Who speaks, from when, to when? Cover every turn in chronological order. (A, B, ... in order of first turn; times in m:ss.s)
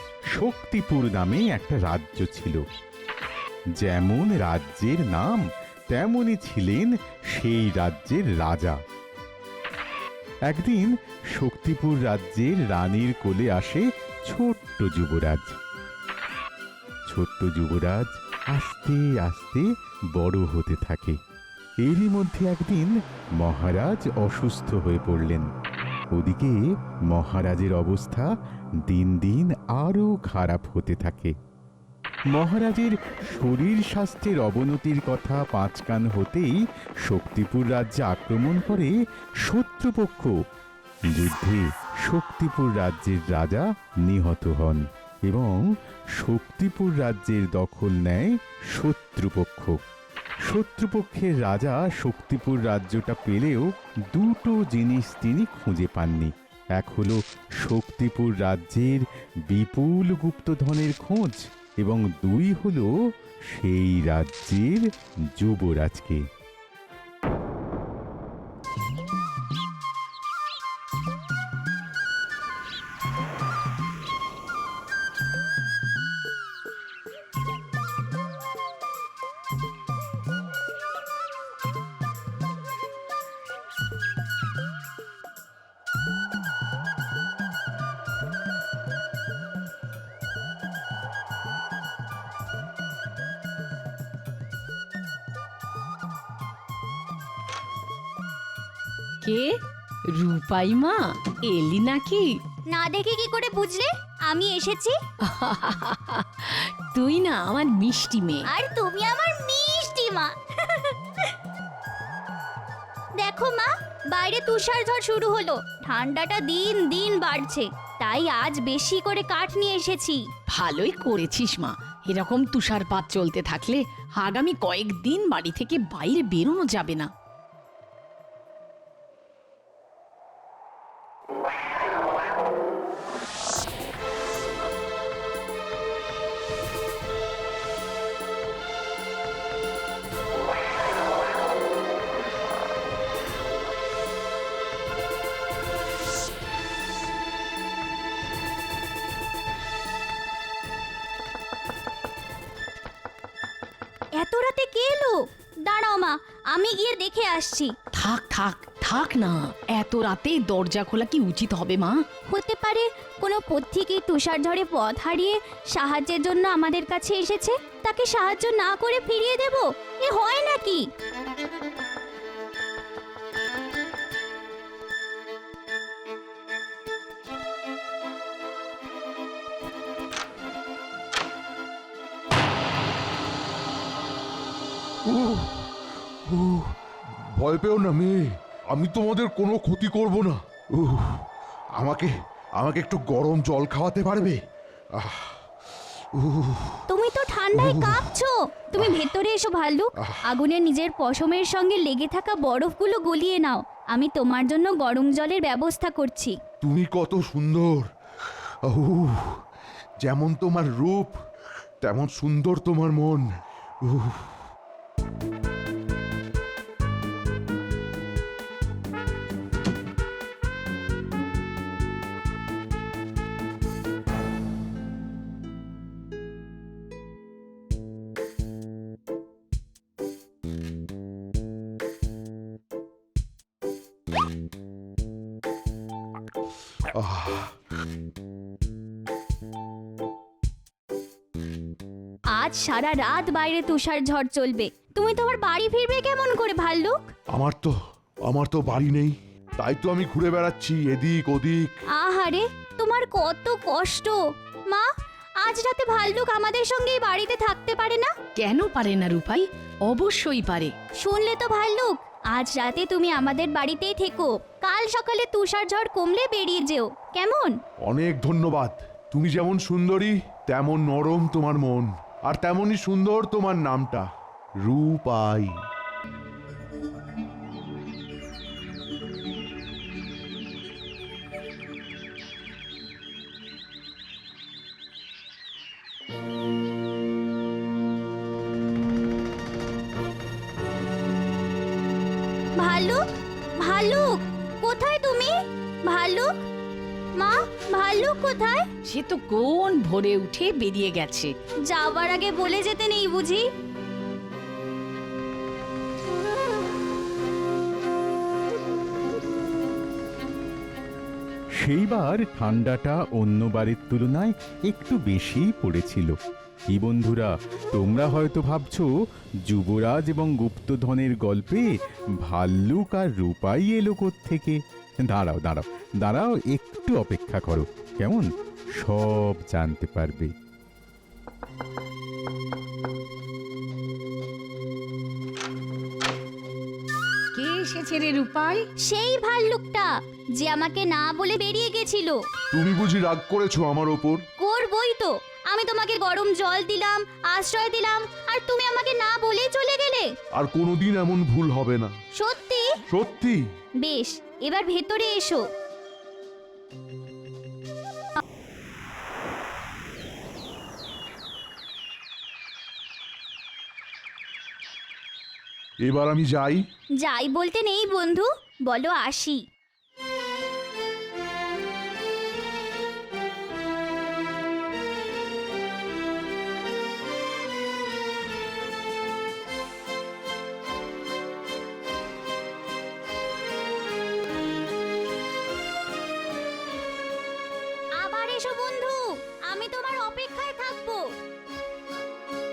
0:00.3-0:02.6 A
0:03.8-0:08.8 A
0:10.5-0:15.6 A
0:17.1-0:21.2 A
0:21.8-0:25.5 A
0:26.1-0:26.6 A
0:27.1-0:28.3 A
0:28.9-0:31.3 A
0:32.3-0:40.3 A
0:41.1-0:45.6 A
0:46.2-0:49.8 A
0:50.4-1:02.9 A
1:03.5-1:06.2 A
1:39.2-1:39.5 B
1:40.1-1:42.3 B
1:42.7-1:45.0 C
1:45.3-1:48.5 B
1:48.5-1:51.0 C
1:53.2-2:00.2 C
2:00.5-2:07.1 B
2:34.2-2:37.7 C
2:37.9-2:42.0 B
2:42.3-2:50.8 C
3:05.0-3:05.7 D
3:06.2-3:06.7 D
3:07.4-3:14.4 D
3:14.9-3:15.4 D
3:16.1-3:16.8 D
3:16.9-3:26.3 C
3:17.5-3:18.1 D
3:26.6-3:27.9 D
3:28.7-3:29.4 D
3:30.0-3:31.1 D
3:31.8-3:33.3 D
3:33.8-3:34.3 D
3:56.9-3:57.5 D
4:02.3-4:07.1 C
4:07.3-4:07.8 D
4:08.3-4:11.8 D
4:11.9-4:14.2 C
4:15.4-4:18.1 C
4:18.4-4:20.7 B
4:21.0-4:27.6 C
4:27.8-4:34.1 D
4:34.6-4:35.5 D
4:52.6-4:53.0 C
4:53.6-4:55.3 C
4:55.9-4:56.3 C
4:57.2-4:58.6 C
4:58.9-5:01.3 B
5:01.7-5:03.4 C
5:11.6-5:16.2 A
5:16.7-5:18.9 A
5:19.4-5:21.7 A
5:22.2-5:28.3 A
5:28.8-5:30.3 A
5:37.3-5:38.6 B
5:38.9-5:42.2 C
5:42.5-5:44.2 D
5:44.4-5:50.1 C
5:50.3-5:51.9 D
5:52.2-5:52.6 C
5:52.9-5:53.4 D
5:53.8-5:55.4 C
6:05.8-6:06.6 D
6:07.0-6:09.4 C
6:28.0-6:31.0 C